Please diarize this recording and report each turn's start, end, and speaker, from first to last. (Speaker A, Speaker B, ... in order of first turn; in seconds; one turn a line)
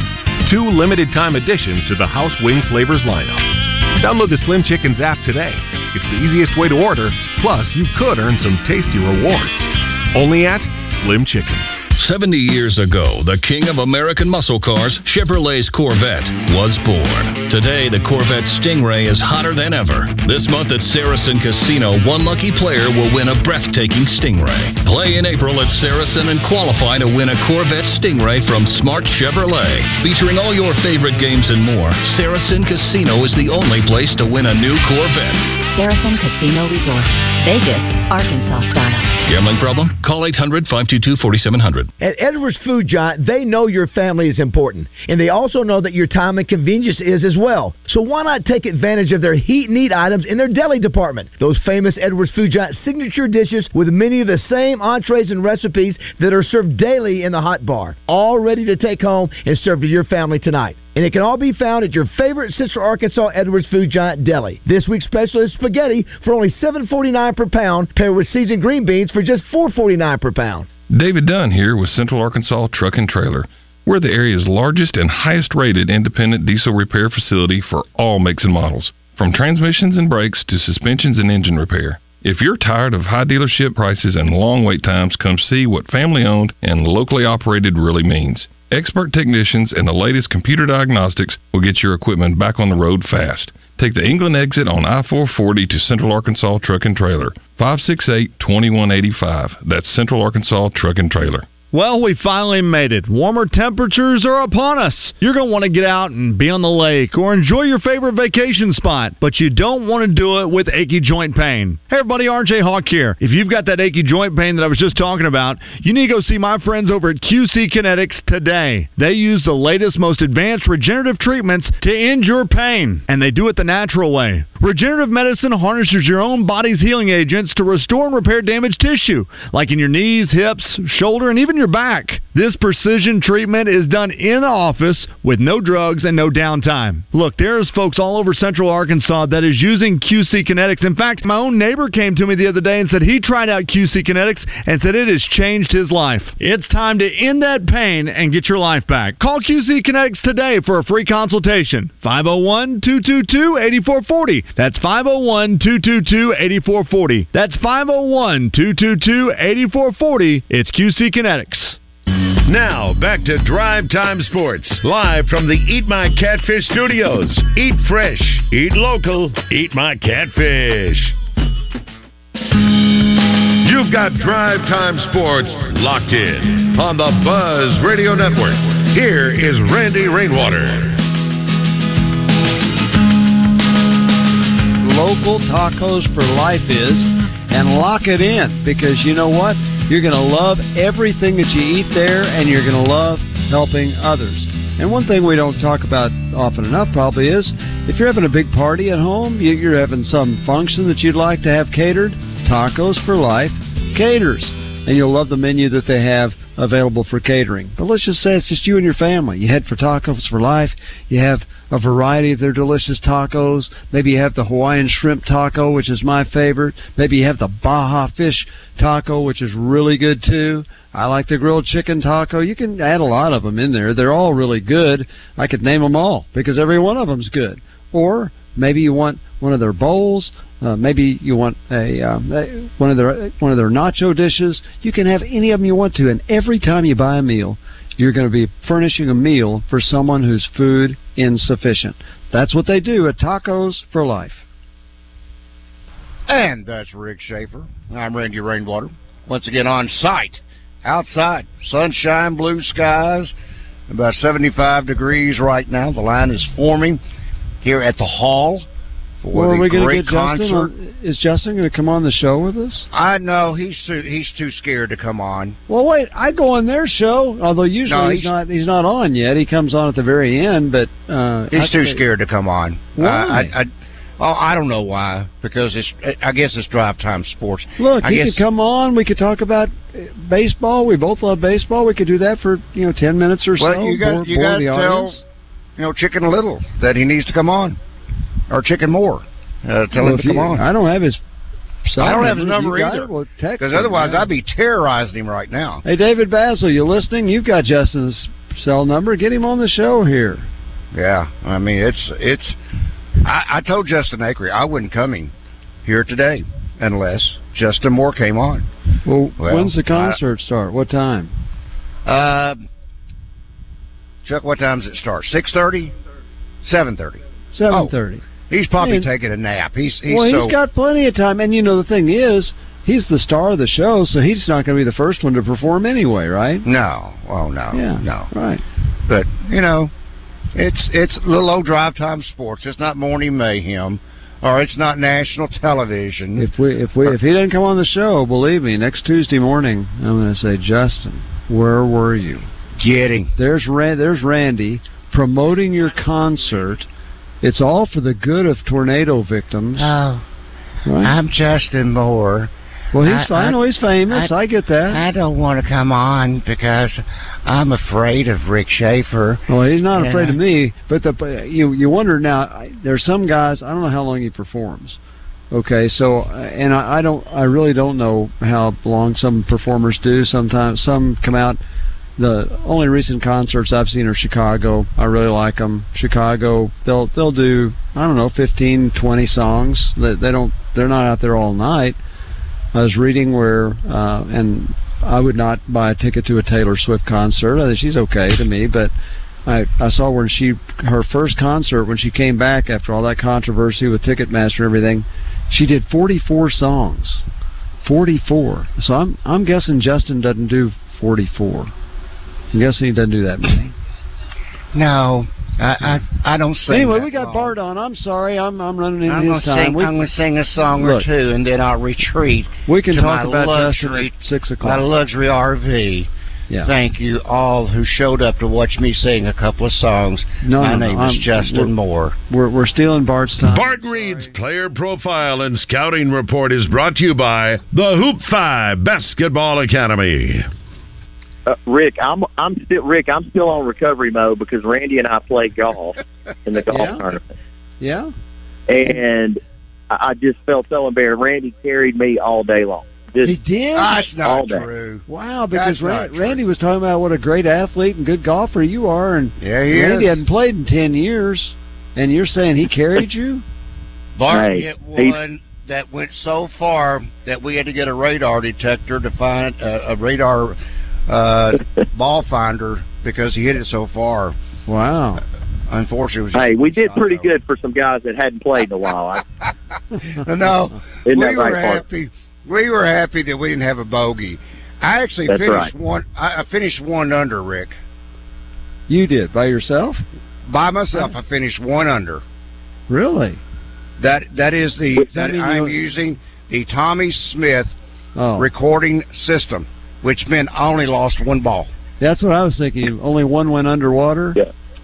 Speaker A: 0.4-11.8
Speaker B: 11.9-35.5
Speaker C: 35.6-39.1
Speaker B: 39.2-41.9
Speaker D: 42.0-70.7
Speaker E: 70.9-101.5
Speaker F: 101.7-161.8
Speaker G: 162.5-171.2
Speaker G: 173.6-181.0
Speaker H: 184.8-244.4
Speaker I: 246.3-253.3
Speaker I: 253.9-257.0
Speaker I: 257.6-258.7
Speaker I: 259.2-260.7
Speaker H: 259.3-262.9
Speaker I: 262.9-265.6
Speaker H: 265.7-272.0
Speaker I: 267.9-268.3
Speaker I: 271.5-273.7
Speaker H: 273.0-273.5
Speaker I: 274.2-278.4
Speaker H: 277.8-285.2
Speaker I: 283.6-285.2
Speaker I: 285.8-287.8
Speaker I: 288.5-290.6
Speaker H: 290.0-291.2
Speaker H: 291.9-294.3
Speaker I: 292.0-295.8
Speaker H: 295.9-300.5
Speaker I: 300.9-302.6
Speaker I: 303.2-305.3
Speaker I: 305.8-308.7
Speaker H: 309.1-311.3
Speaker I: 309.4-310.2
Speaker I: 312.1-312.6
Speaker I: 314.2-315.9
Speaker I: 316.6-317.9
Speaker H: 317.5-318.2
Speaker I: 318.5-320.6
Speaker H: 318.8-319.1
Speaker H: 320.1-326.7
Speaker I: 326.6-328.3
Speaker H: 327.7-328.6
Speaker I: 329.1-329.9
Speaker I: 330.6-336.5
Speaker H: 336.4-342.5
Speaker I: 342.8-343.3
Speaker H: 343.4-346.9
Speaker H: 347.4-349.9
Speaker I: 349.8-350.2
Speaker H: 350.9-351.1
Speaker I: 351.0-354.3
Speaker H: 352.9-355.0
Speaker I: 354.9-359.4
Speaker H: 359.5-365.0
Speaker I: 359.9-360.4
Speaker H: 365.5-371.6
Speaker H: 372.2-382.0
Speaker H: 382.7-388.9
Speaker H: 389.5-397.2
Speaker H: 397.8-401.7
Speaker H: 402.5-403.8
Speaker I: 404.7-407.6
Speaker H: 406.7-409.9
Speaker I: 409.1-416.1
Speaker H: 410.8-411.1
Speaker H: 412.7-414.9
Speaker I: 416.6-422.2
Speaker H: 420.4-421.7
Speaker H: 422.3-424.3
Speaker G: 423.4-430.5
Speaker J: 431.5-437.2
Speaker H: 436.7-437.2
Speaker H: 437.8-438.1
Speaker J: 438.7-443.4
Speaker H: 443.2-444.1
Speaker I: 443.7-446.4
Speaker J: 444.2-444.6
Speaker H: 445.1-453.4
Speaker I: 449.4-450.2
Speaker I: 454.2-464.4
Speaker J: 454.3-455.1
Speaker H: 464.7-465.2
Speaker I: 465.7-467.3
Speaker J: 466.4-469.2
Speaker I: 470.2-477.7
Speaker J: 471.1-471.8
Speaker J: 475.3-475.7
Speaker H: 478.9-480.0
Speaker I: 480.5-482.2
Speaker H: 482.9-483.4
Speaker I: 484.0-487.7
Speaker H: 485.1-485.8
Speaker H: 488.2-488.5
Speaker I: 488.4-491.7
Speaker H: 492.0-494.4